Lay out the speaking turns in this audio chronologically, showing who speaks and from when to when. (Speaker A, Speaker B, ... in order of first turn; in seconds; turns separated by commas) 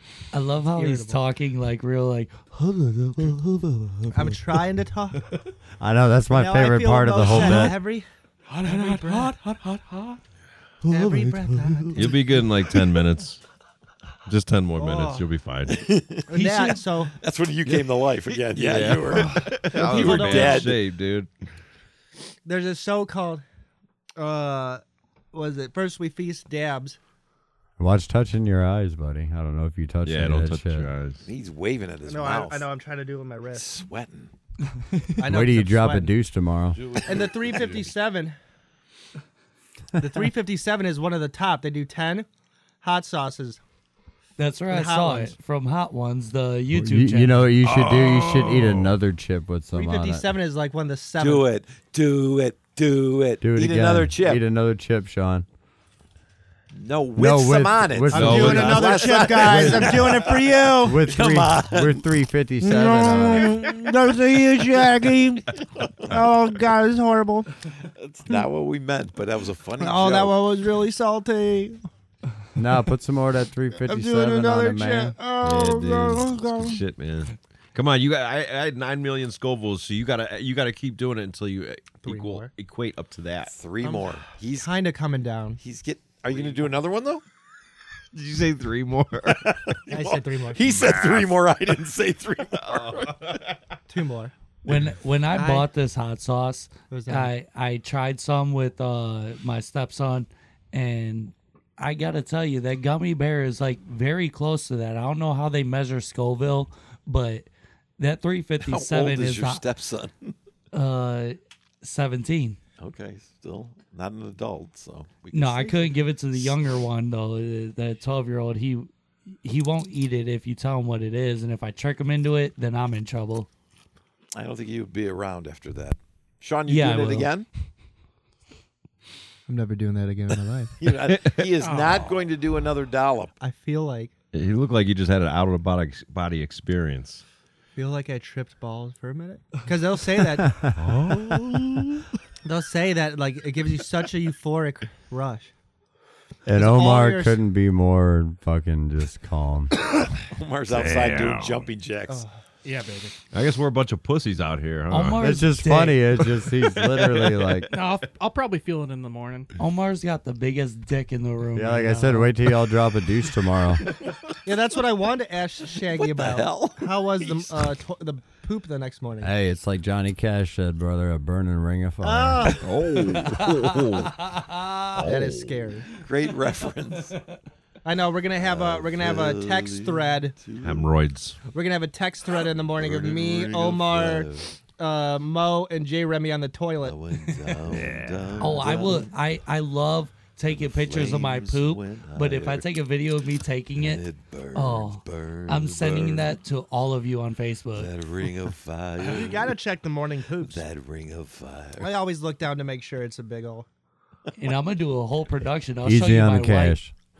Speaker A: 0.3-3.0, Speaker B: 0.6-1.2, Speaker C: 3.1-3.8, Speaker B: 4.1-5.3, Speaker C: 5.8-7.8, Speaker B: 6.3-8.1, Speaker B: 8.6-9.4, Speaker D: 8.7-9.0, Speaker B: 10.9-12.2, Speaker C: 11.0-11.4, Speaker E: 11.9-13.4, Speaker E: 14.3-15.8, Speaker B: 14.8-15.2, Speaker D: 15.7-16.3, Speaker B: 16.3-17.2, Speaker A: 16.3-16.8, Speaker D: 17.1-20.8, Speaker E: 18.5-21.3, Speaker B: 19.7-20.7, Speaker B: 22.4-23.4, Speaker B: 24.2-24.8, Speaker B: 25.3-27.0, Speaker C: 27.8-30.9, Speaker E: 30.1-31.2, Speaker D: 31.2-32.7, Speaker B: 32.0-33.8, Speaker D: 33.5-34.3, Speaker B: 35.2-36.1, Speaker C: 35.2-36.8, Speaker E: 36.9-37.7, Speaker D: 36.9-37.2, Speaker B: 37.0-38.4, Speaker B: 40.0-42.3, Speaker B: 42.8-43.6, Speaker A: 44.4-47.5, Speaker B: 44.7-45.4, Speaker C: 46.7-50.3, Speaker E: 47.6-49.0, Speaker B: 49.7-51.5, Speaker D: 51.2-54.4, Speaker C: 53.4-55.5, Speaker D: 56.7-62.0, Speaker C: 57.2-63.6, Speaker B: 58.1-61.1, Speaker E: 58.1-59.1, Speaker B: 62.6-67.5, Speaker D: 65.8-66.2, Speaker D: 67.8-70.4, Speaker B: 69.8-71.8, Speaker C: 72.6-75.2, Speaker B: 73.8-76.8, Speaker E: 75.4-83.5, Speaker B: 82.0-82.5, Speaker D: 83.5-84.7, Speaker B: 83.8-85.6, Speaker D: 85.6-87.2, Speaker E: 88.1-89.5, Speaker D: 89.3-93.1, Speaker B: 89.9-90.7, Speaker E: 90.7-91.4, Speaker E: 92.5-93.6, Speaker B: 93.9-94.3, Speaker A: 94.6-109.7, Speaker B: 95.3-95.7, Speaker B: 96.9-97.3, Speaker D: 108.6-110.3, Speaker A: 110.7-112.6, Speaker D: 112.8-116.6, Speaker A: 115.3-118.9, Speaker A: 119.4-123.5, Speaker D: 124.3-127.5, Speaker A: 126.7-127.3, Speaker B: 129.5-130.8, Speaker D: 130.8-133.3, Speaker E: 131.1-131.5, Speaker F: 131.6-132.2, Speaker B: 133.4-134.1, Speaker E: 134.3-137.2, Speaker B: 137.8-140.6, Speaker C: 140.5-140.8, Speaker E: 140.8-142.1, Speaker B: 142.4-145.5, Speaker C: 146.5-149.7, Speaker B: 146.5-147.4, Speaker D: 150.3-152.2, Speaker E: 150.7-151.7, Speaker B: 152.1-152.4, Speaker F: 152.6-153.2, Speaker E: 153.3-155.4, Speaker A: 154.9-156.1, Speaker C: 155.2-157.7, Speaker F: 157.7-159.5, Speaker A: 159.6-162.3, Speaker C: 161.6-163.8, Speaker B: 164.4-169.3, Speaker D: 165.9-167.7, Speaker C: 169.2-172.6, Speaker B: 172.0-172.7, Speaker E: 172.6-174.3, Speaker A: 173.2-173.5, Speaker A: 174.2-174.8, Speaker E: 174.9-175.8, Speaker B: 175.0-175.9, Speaker D: 175.9-177.2, Speaker B: 177.8-180.4, Speaker D: 178.4-180.9, Speaker E: 180.6-181.4, Speaker B: 181.5-187.0, Speaker D: 182.8-184.5, Speaker D: 186.8-189.1, Speaker E: 187.7-188.5, Speaker A: 188.4-197.9, Speaker D: 190.5-192.7, Speaker D: 193.8-196.3, Speaker D: 197.8-199.6, Speaker B: 199.0-200.6, Speaker D: 200.4-201.9, Speaker B: 201.8-203.7, Speaker A: 204.4-206.8, Speaker C: 205.8-206.9